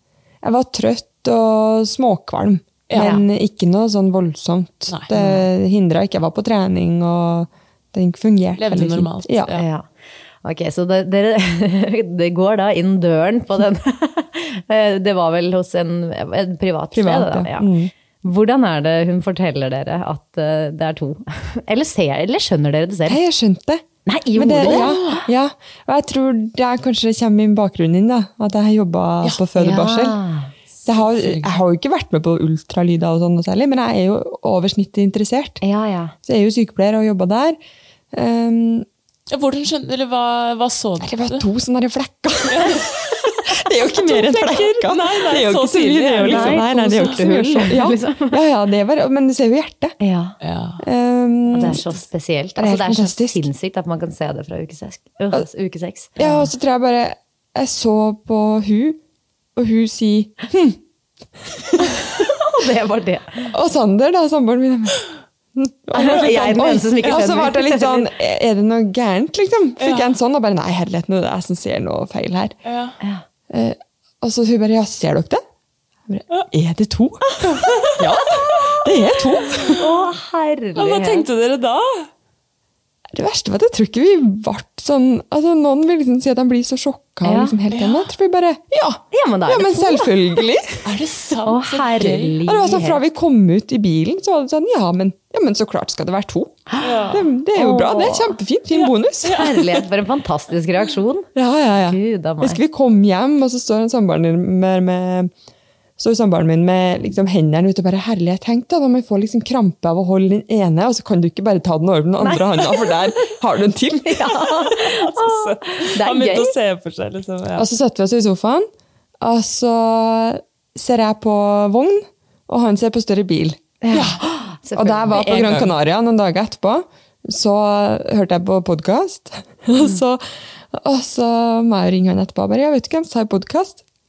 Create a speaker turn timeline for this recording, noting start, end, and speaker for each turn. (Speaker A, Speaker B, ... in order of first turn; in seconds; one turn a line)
Speaker A: 0.4-9.5
Speaker B: 2.9-3.2
Speaker C: 3.0-3.2
Speaker B: 4.9-5.3
Speaker B: 8.6-9.7
Speaker C: 9.6-9.9
Speaker C: 10.4-17.7
Speaker A: 16.9-17.9
Speaker C: 18.2-23.2
Speaker A: 23.1-23.8
Speaker C: 24.1-25.2
Speaker A: 24.4-30.2
Speaker B: 24.6-25.2
Speaker C: 29.6-30.5
Speaker B: 30.8-31.6
Speaker A: 30.9-35.6
Speaker C: 35.6-36.1
Speaker A: 36.2-37.6
Speaker A: 38.1-38.9
Speaker B: 39.3-41.5
Speaker A: 41.0-42.9
Speaker B: 42.5-47.2
Speaker A: 43.5-50.0
Speaker C: 46.3-48.4
Speaker C: 50.0-50.4
Speaker B: 50.4-50.9
Speaker A: 50.8-51.8
Speaker C: 51.5-56.5
Speaker A: 52.6-53.5
Speaker A: 56.2-59.0
Speaker A: 59.6-60.8
Speaker C: 62.2-63.5
Speaker A: 63.5-65.0
Speaker A: 65.5-72.5
Speaker C: 65.9-68.1
Speaker B: 69.8-70.1
Speaker B: 72.7-73.0
Speaker A: 73.5-75.4
Speaker A: 76.1-77.2
Speaker B: 77.4-78.0
Speaker A: 78.0-79.8
Speaker C: 78.0-78.7
Speaker C: 79.8-81.3
Speaker B: 80.8-82.1
Speaker A: 83.1-90.9
Speaker C: 87.2-87.6
Speaker B: 87.7-88.1
Speaker C: 89.1-90.2
Speaker B: 90.8-92.4
Speaker C: 91.5-93.0
Speaker A: 92.5-96.6
Speaker C: 96.7-98.4
Speaker B: 96.8-97.3
Speaker A: 97.1-99.5
Speaker B: 98.8-99.8
Speaker C: 99.3-102.6
Speaker A: 101.3-105.3
Speaker A: 106.0-114.3
Speaker C: 112.2-112.9
Speaker C: 114.0-116.5
Speaker B: 114.5-117.7
Speaker A: 117.6-118.7
Speaker A: 119.2-123.6
Speaker C: 123.8-125.4
Speaker B: 123.9-124.2
Speaker A: 124.8-133.8
Speaker B: 125.1-125.7